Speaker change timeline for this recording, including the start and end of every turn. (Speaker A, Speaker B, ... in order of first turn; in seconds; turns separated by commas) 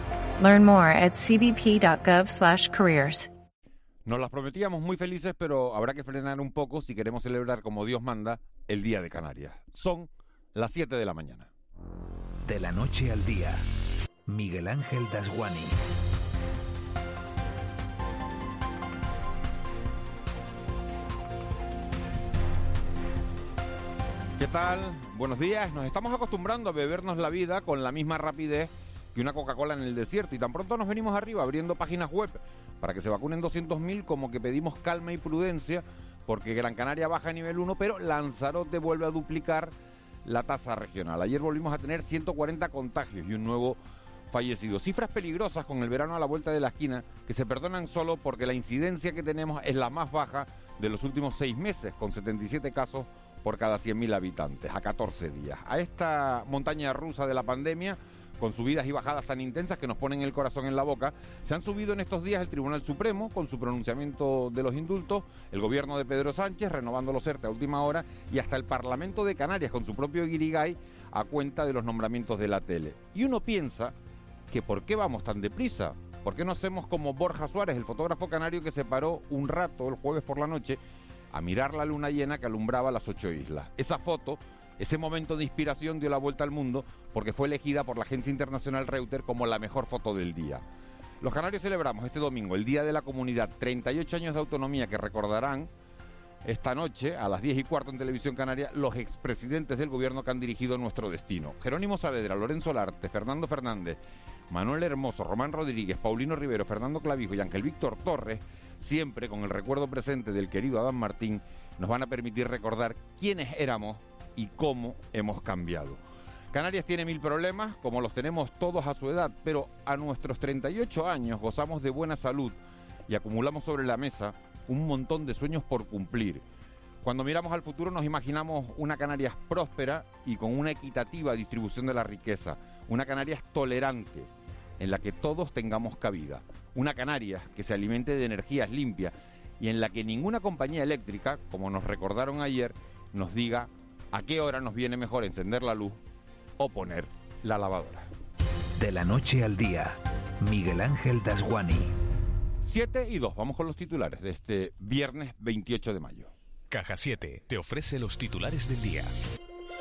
Speaker A: 0.4-3.3, Speaker B: 4.1-11.5, Speaker C: 12.4-13.6, Speaker C: 14.3-15.8, Speaker B: 24.4-39.7, Speaker B: 40.2-43.8, Speaker B: 44.3-74.0, Speaker B: 74.5-80.8, Speaker B: 81.3-90.6, Speaker B: 91.2-95.7, Speaker B: 96.5-104.0, Speaker B: 104.5-116.0, Speaker B: 116.5-122.6, Speaker B: 123.1-126.4, Speaker B: 127.0-134.3, Speaker B: 134.8-146.0, Speaker B: 146.6-148.1, Speaker C: 148.8-151.9, Speaker B: 152.6-156.3, Speaker C: 157.9-159.0